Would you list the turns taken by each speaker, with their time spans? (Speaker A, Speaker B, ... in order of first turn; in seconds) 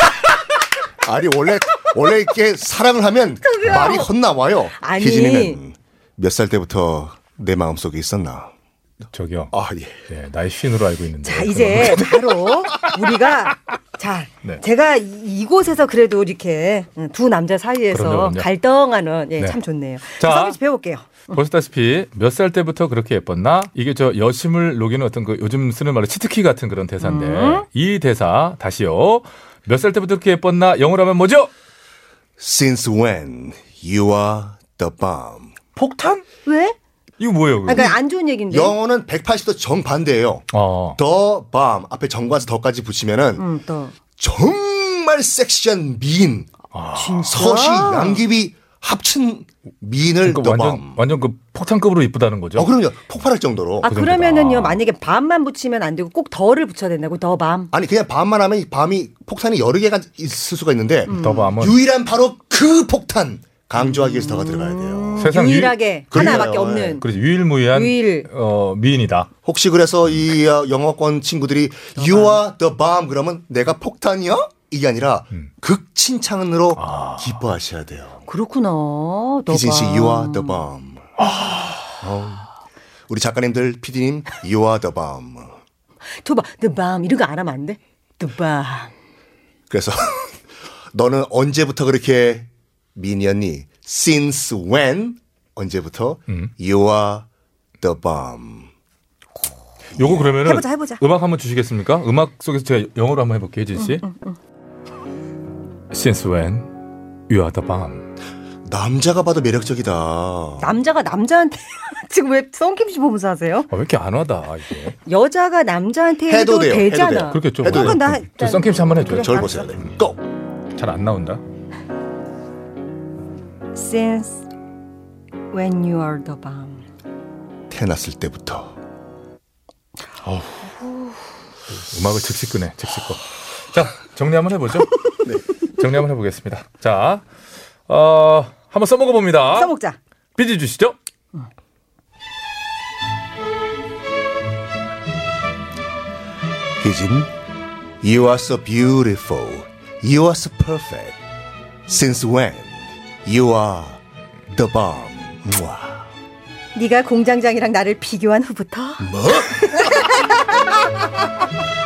Speaker A: 1.0-8.5, 9.5-10.0, 32.4-35.5, 38.5-40.5, 41.0-43.4, 44.2-46.5, 47.3-51.0, 52.5-53.9, 57.7-65.3, 66.1-67.0, 69.4-78.2, 79.5-81.1, 82.0-82.5, 83.1-85.5, 89.7-90.3, 90.9-97.3, 97.8-98.7, 100.0-100.4, 108.7-110.7, 116.3-118.0, 119.1-120.2, 127.7-128.7, 146.8-147.3, 148.0-151.2, 151.9-154.0, 154.5-156.1, 159.0-159.9
Speaker B: 3.4-4.1, 4.7-5.6, 11.2-21.4, 27.0-27.6, 36.3-36.7, 37.6-38.8, 43.4-43.9, 46.9-48.2, 53.8-57.7, 61.1-61.6, 63.8-67.1, 67.7-68.3, 72.0-72.4, 78.3-80.6, 86.2-88.9, 100.4-101.0, 103.8-104.4, 110.6-113.7, 115.0-119.7, 123.7-124.5, 125.5-126.8, 139.5-140.0, 156.7-160.6
Speaker C: 9.1-9.5, 10.1-12.1, 17.9-18.5, 19.4-20.6, 21.3-31.5, 35.7-36.3, 37.2-37.9, 40.5-41.0, 46.7-47.2, 50.2-52.7, 53.8-54.8, 61.1-61.8, 65.2-66.4, 67.0-69.3, 76.7-77.3, 81.2-81.7, 100.0-104.0, 105.9-106.7, 107.3-108.1, 113.7-115.0, 117.3-119.3, 120.7-121.4, 130.2-130.6, 131.7-134.9, 135.8-137.2, 137.9-139.7, 140.3-141.0